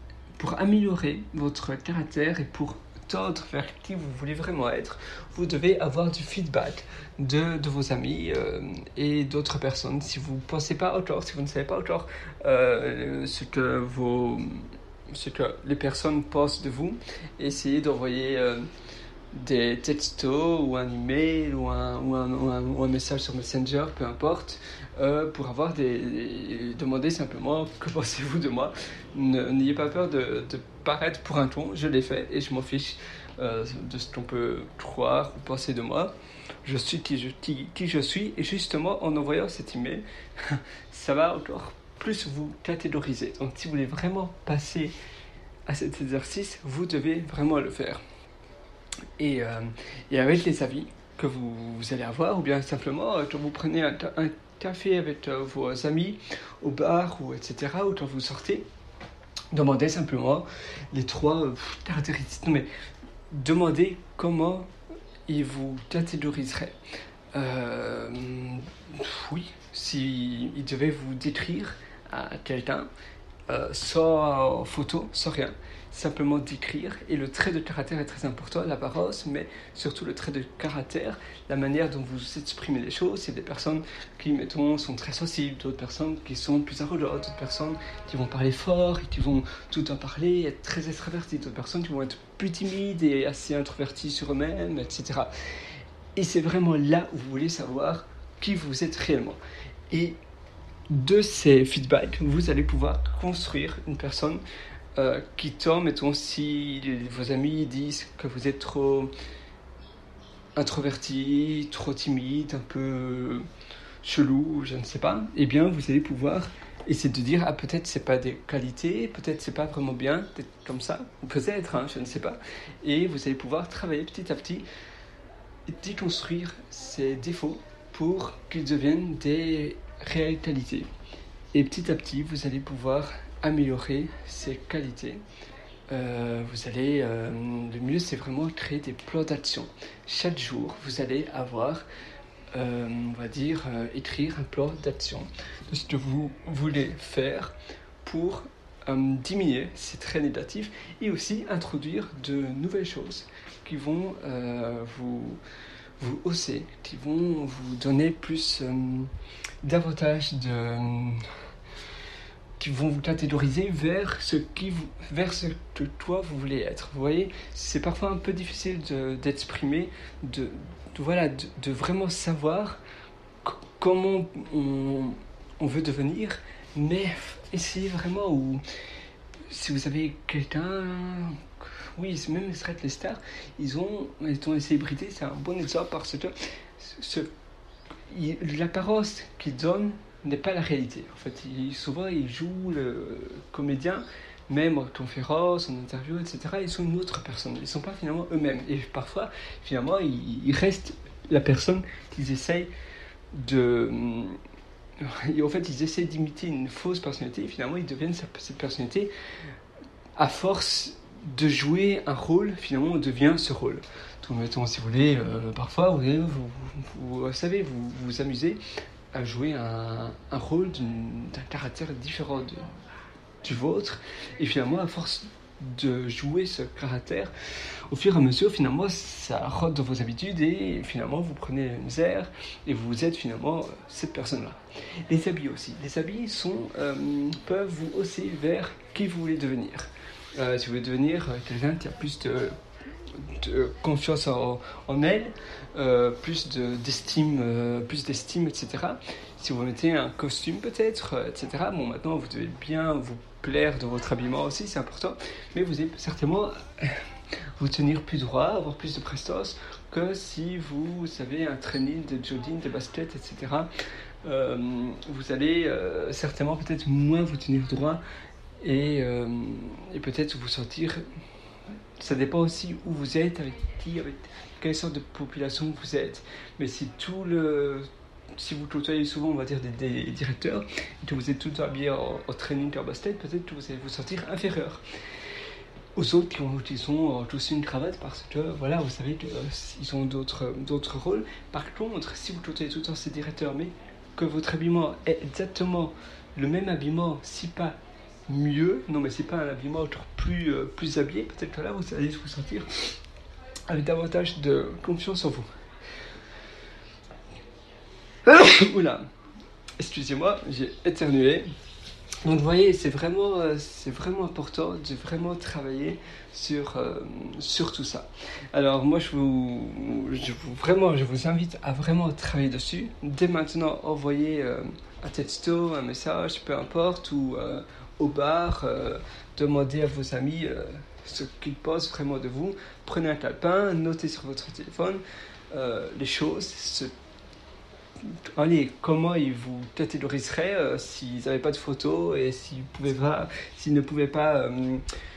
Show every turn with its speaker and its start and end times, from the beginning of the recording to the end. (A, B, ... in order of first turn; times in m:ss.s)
0:00.4-0:18.7 A
0:19.3-0:45.0 A
0:45.7-0:48.0 A
0:49.2-0:58.6 A
0:59.5-1:02.7 A
1:03.3-1:04.7 A
1:05.3-1:06.8 A
1:07.3-1:12.9 A
1:13.5-1:35.3 A
1:36.2-1:39.4 A
1:39.9-1:40.2 A
1:40.9-1:44.4 A
1:45.0-1:49.1 A
1:50.6-1:53.4 A
1:54.0-2:04.7 A
2:05.7-2:10.9 A
2:11.5-2:15.2 A
2:15.9-2:21.8 A
2:22.6-2:35.4 A
2:36.0-2:41.2 A
2:42.6-2:52.8 A
2:53.4-2:58.6 A
2:59.5-3:07.3 A
3:08.1-3:22.7 A
3:23.3-3:24.4 A
3:25.0-3:29.1 A
3:30.2-3:38.6 A
3:39.1-3:42.7 A
3:43.4-3:47.3 A
3:47.9-4:02.6 A
4:03.1-4:17.0 A
4:17.6-4:23.7 A
4:24.2-4:28.0 A
4:28.6-4:31.0 A
4:32.0-4:44.8 A
4:46.0-5:02.7 A
5:03.7-5:05.5 A
5:08.2-5:09.1 A
5:09.8-5:11.5 A
5:12.2-5:36.9 A
5:38.0-5:44.8 A